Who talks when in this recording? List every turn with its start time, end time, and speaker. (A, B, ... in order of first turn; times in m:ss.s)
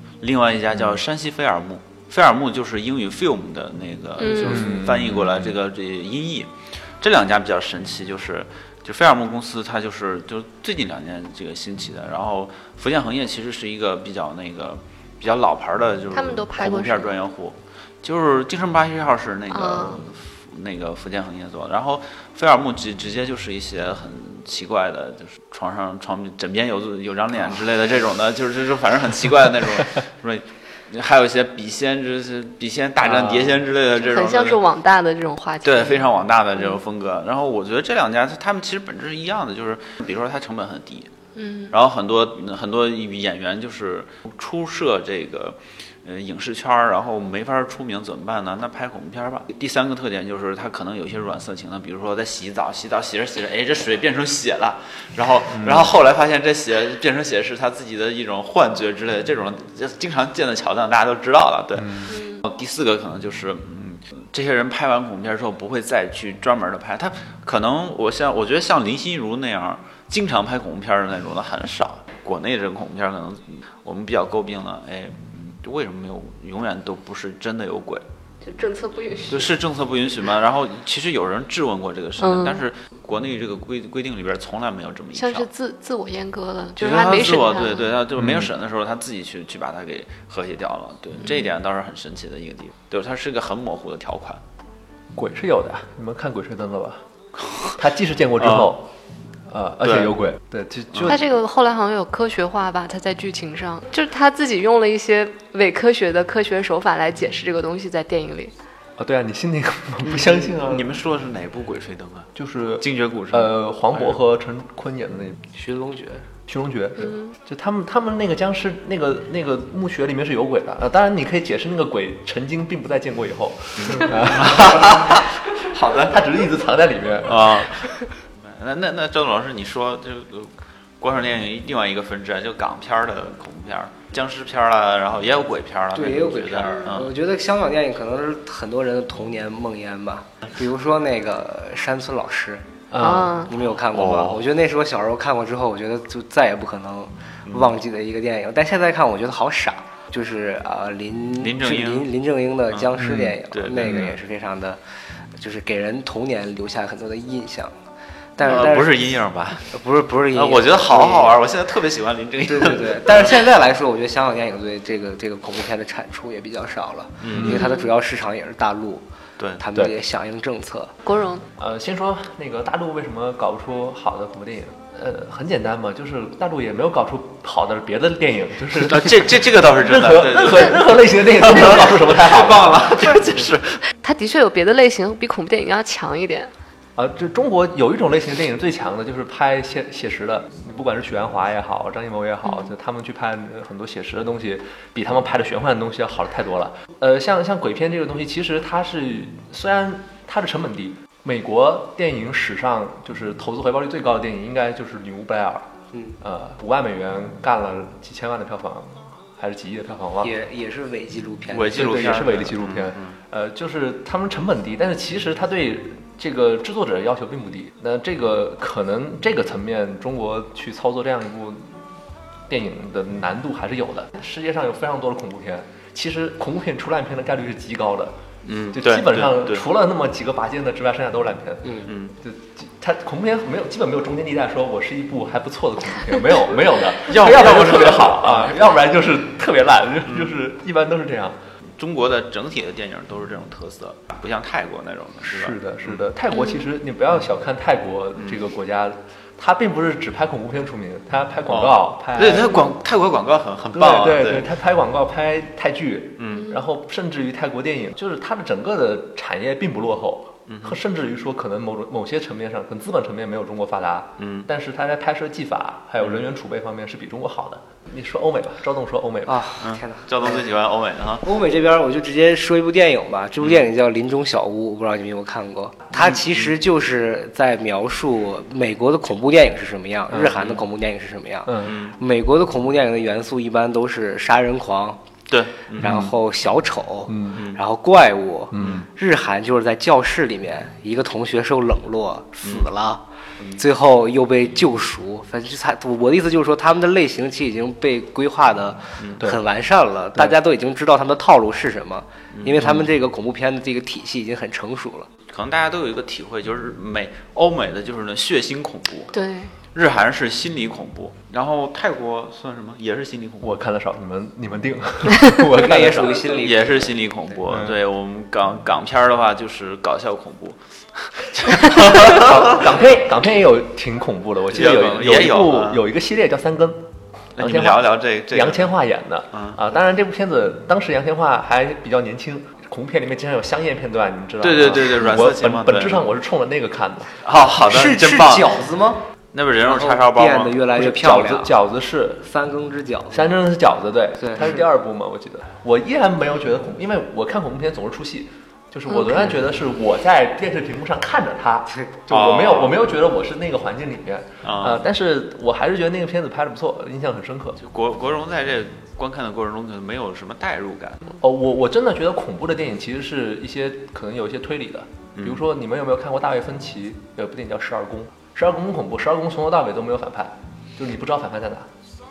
0:00.2-0:34.6 A
0:04.2-0:04.7 B
0:04.4-0:05.5 C
0:16.1-0:17.1 B
0:19.5-0:20.0 B
0:33.0-0:33.5 C
0:33.9-0:36.0 B
0:35.6-0:41.1 A
0:41.3-0:41.7 B
0:41.7-1:18.0 A
0:55.5-0:55.9 C
1:01.8-1:02.1 C
1:02.1-1:02.4 B
1:18.4-1:19.5 B
1:19.3-1:25.5 A
1:22.2-1:22.6 B
1:25.1-1:27.9 B
1:26.8-1:34.4 A
1:28.2-1:28.5 C
1:35.1-1:37.0 C
1:37.4-1:37.8 A
1:37.8-1:38.9 C
1:38.4-1:38.7 A
1:39.5-1:41.2 C
1:39.8-1:40.1 A
1:40.9-1:41.2 A
1:41.1-1:48.5 B
1:49.0-1:51.0 C
1:50.0-1:54.2 A
1:52.4-1:55.4 C
1:55.5-1:56.2 D
1:56.5-2:07.9 C
1:57.0-1:57.3 B
2:03.8-2:06.2 A
2:07.2-2:17.1 A
2:15.9-2:22.7 D
2:22.9-2:23.4 C
2:23.0-2:23.5 B
2:23.3-2:34.8 D
2:23.8-2:24.4 A
2:27.4-2:27.7 A
2:31.4-2:32.1 A
2:32.7-2:34.2 A
2:33.0-2:33.3 C
2:33.8-2:34.1 C
2:35.3-2:37.8 D
2:38.4-2:39.1 D
2:38.4-2:43.4 A
2:39.7-2:41.4 D
2:42.4-2:49.0 D
2:47.2-2:47.6 A
2:47.3-2:47.6 C
2:47.4-2:47.9 B
2:49.4-2:49.6 A
2:49.6-2:51.0 D
2:51.0-2:51.4 B
2:51.6-3:03.0 C
2:58.7-3:03.8 A
3:04.0-3:06.5 B
3:07.0-3:25.7 C
3:25.9-3:26.2 D
3:26.2-3:30.3 C
3:30.2-3:32.2 D
3:31.5-3:33.2 A
3:31.7-3:41.8 C
3:42.5-3:48.1 C
3:48.4-3:49.6 A
3:48.7-4:01.4 C
3:51.6-3:51.9 D
3:51.9-3:52.1 A
3:57.1-3:58.6 A
4:00.1-4:00.3 A
4:01.8-4:06.0 A
4:05.2-4:12.6 C
4:06.3-4:06.6 B
4:08.2-4:08.4 A
4:11.5-4:14.5 A
4:13.7-4:29.4 C
4:16.2-4:16.5 A
4:20.5-4:20.8 A
4:24.2-4:24.5 A
4:26.0-4:26.3 A
4:29.2-4:30.5 D
4:29.6-4:31.2 A
4:31.2-4:45.0 D
4:33.4-4:33.7 A
4:40.1-4:40.4 C
4:40.2-4:40.6 A
4:41.4-4:41.7 C
4:41.6-4:42.0 A
4:45.3-4:46.1 A
4:45.7-4:53.0 D
4:45.8-4:46.1 C
4:47.1-4:47.4 C
4:47.3-4:47.6 A
4:48.5-4:48.8 C
4:52.4-4:52.7 A
4:53.6-5:05.1 D
4:59.0-4:59.2 A
5:02.3-5:02.8 A
5:05.3-5:09.1 A
5:09.1-5:09.5 B
5:09.7-5:13.6 A
5:13.4-5:16.2 C
5:15.5-5:17.4 D
5:16.2-5:22.7 A
5:17.5-5:17.8 C
5:21.8-5:37.2 C
5:24.5-5:25.8 A
5:27.4-5:28.7 A
5:29.3-5:29.6 A
5:34.4-5:36.1 A
5:37.2-5:38.6 A
5:37.5-5:39.0 D
5:39.3-5:40.6 A
5:39.6-5:41.5 D
5:40.7-5:42.2 C
5:42.2-5:43.4 D
5:43.1-5:57.6 C
5:44.2-5:44.6 D
5:48.9-5:49.2 B
5:52.1-5:52.8 A
5:54.4-5:54.8 A
5:57.6-6:01.2 A
6:01.2-6:11.7 C
6:05.2-6:05.4 A